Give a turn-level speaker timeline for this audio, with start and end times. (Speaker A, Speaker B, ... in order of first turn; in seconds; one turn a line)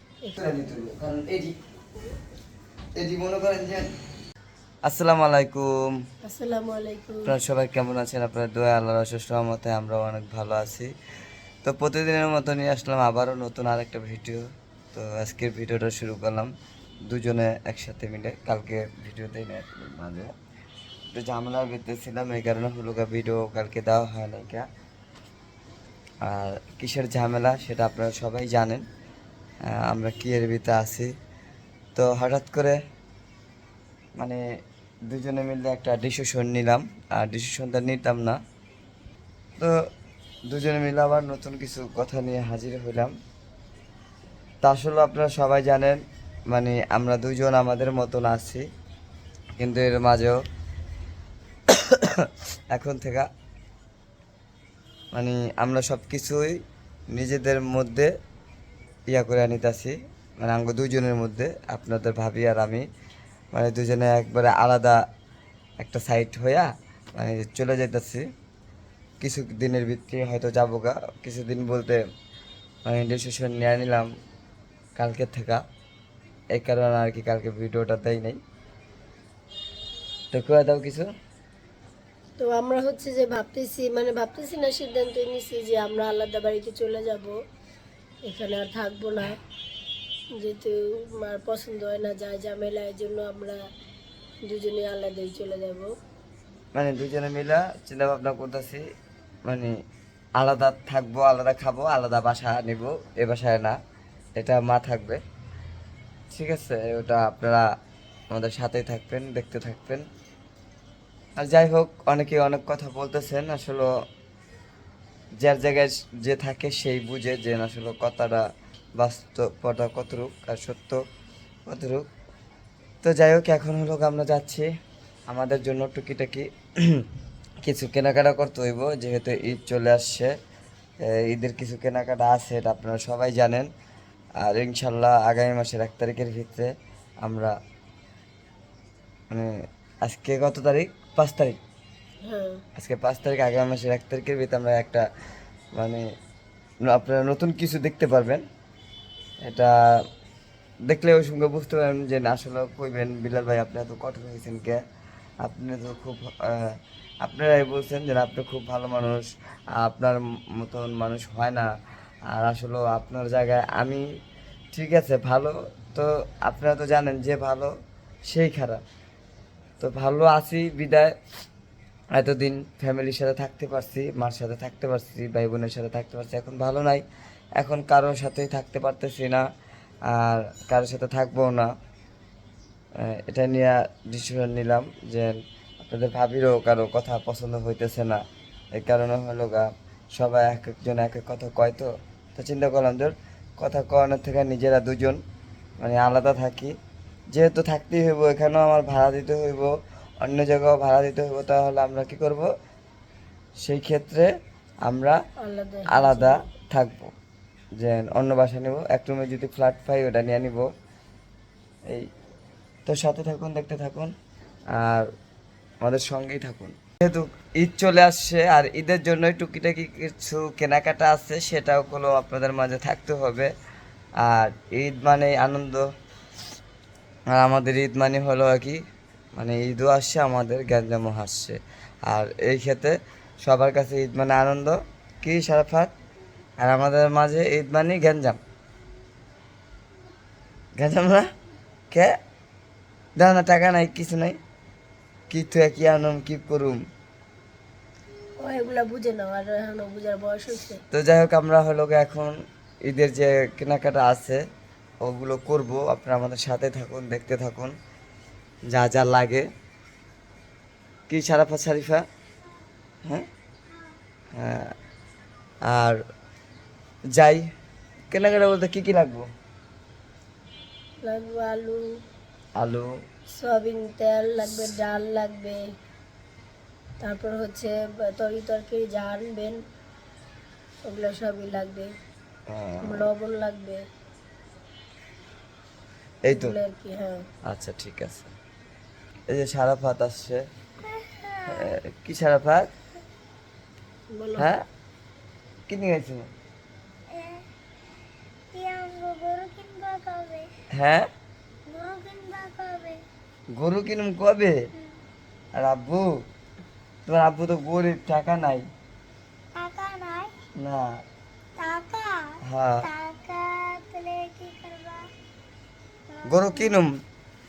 Speaker A: 0.4-1.6
Speaker A: 3.0-3.9
Speaker A: 4.8-5.7
Speaker B: 6.2-7.3
Speaker A: 7.3-10.9
Speaker A: 11.6-16.5
Speaker A: 17.1-20.3
Speaker A: 21.1-24.7
Speaker A: 26.2-28.9
Speaker A: 29.6-31.1
Speaker A: 31.9-32.8
Speaker A: 34.2-34.4
Speaker A: 35.1-38.4
Speaker A: 40.5-43.1
Speaker A: 44.6-48.6
Speaker A: 49.6-50.4
Speaker A: 51.7-53.3
Speaker A: 55.1-56.6
Speaker A: 57.1-58.1
Speaker A: 59.1-62.9
Speaker A: 63.5-65.0
Speaker A: 65.8-68.2
Speaker A: 69.2-72.0
Speaker A: 72.9-74.1
Speaker A: 75.0-75.6
Speaker A: 76.5-78.4
Speaker A: 80.3-81.1
Speaker B: 82.4-87.4
Speaker B: 88.2-89.4
Speaker B: 90.3-93.6
Speaker B: 94.4-95.9
Speaker A: 96.7-98.8
Speaker A: 99.5-99.8
Speaker A: 100.4-103.8
Speaker A: 104.4-105.2
Speaker A: 106.3-107.7
Speaker A: 108.3-110.0
Speaker A: 111.4-113.9
Speaker A: 115.4-121.0
Speaker A: 121.7-122.1
Speaker A: 123.0-124.7
Speaker A: 125.3-127.0
Speaker A: 127.6-130.3
Speaker A: 131.0-133.7
Speaker A: 134.4-137.5
Speaker A: 139.3-141.6
Speaker B: 142.2-142.6
Speaker A: 142.8-145.0
Speaker A: 145.7-146.1
Speaker A: 146.8-148.4
Speaker A: 149.4-150.0
Speaker A: 150.8-154.8
Speaker A: 155.4-161.7
Speaker A: 162.3-164.0
Speaker A: 164.7-167.7
Speaker A: 168.3-168.8
Speaker A: 169.8-171.1
Speaker A: 172.1-177.0
Speaker A: 177.6-179.4
Speaker A: 180.1-181.7
Speaker A: 183.0-195.2
Speaker A: 195.8-196.7
Speaker A: 197.3-202.5
Speaker A: 203.6-204.3
Speaker A: 204.8-205.2
Speaker B: 205.4-206.4
Speaker A: 205.9-207.1
Speaker A: 207.8-210.7
Speaker A: 212.8-214.1
Speaker A: 214.7-215.1
Speaker A: 215.8-223.5
Speaker A: 224.2-225.9
Speaker A: 227.3-228.8
Speaker A: 229.3-235.9
Speaker A: 236.6-238.4
Speaker A: 240.8-241.3
Speaker A: 243.2-244.4
Speaker A: 245.3-246.8
Speaker B: 248.4-250.8
Speaker A: 250.9-254.4
Speaker A: 255.0-257.7
Speaker A: 258.7-259.5
Speaker A: 261.1-262.0
Speaker A: 264.3-264.7
Speaker A: 265.7-266.0
Speaker A: 267.2-267.5
Speaker A: 268.1-269.3
Speaker B: 271.0-271.9
Speaker A: 272.6-272.9
Speaker B: 273.3-275.6
Speaker B: 277.0-279.6
Speaker B: 280.9-281.9
Speaker A: 282.5-283.1
Speaker B: 282.8-283.8
Speaker A: 286.2-286.6
Speaker B: 286.3-287.2
Speaker A: 287.5-288.3
Speaker A: 289.3-290.4
Speaker C: 290.9-291.7
Speaker A: 291.5-292.7
Speaker B: 294.1-294.5
Speaker A: 294.4-294.6
Speaker A: 295.7-296.2
Speaker C: 297.1-297.4
Speaker C: 298.5-300.5
Speaker A: 300.7-301.1
Speaker C: 301.7-303.0
Speaker A: 303.6-304.6
Speaker A: 305.5-306.2
Speaker A: 307.1-308.6
Speaker C: 309.6-310.3
Speaker A: 310.6-311.0
Speaker C: 311.6-315.1
Speaker A: 312.4-312.9
Speaker C: 316.1-316.8
Speaker A: 316.2-316.9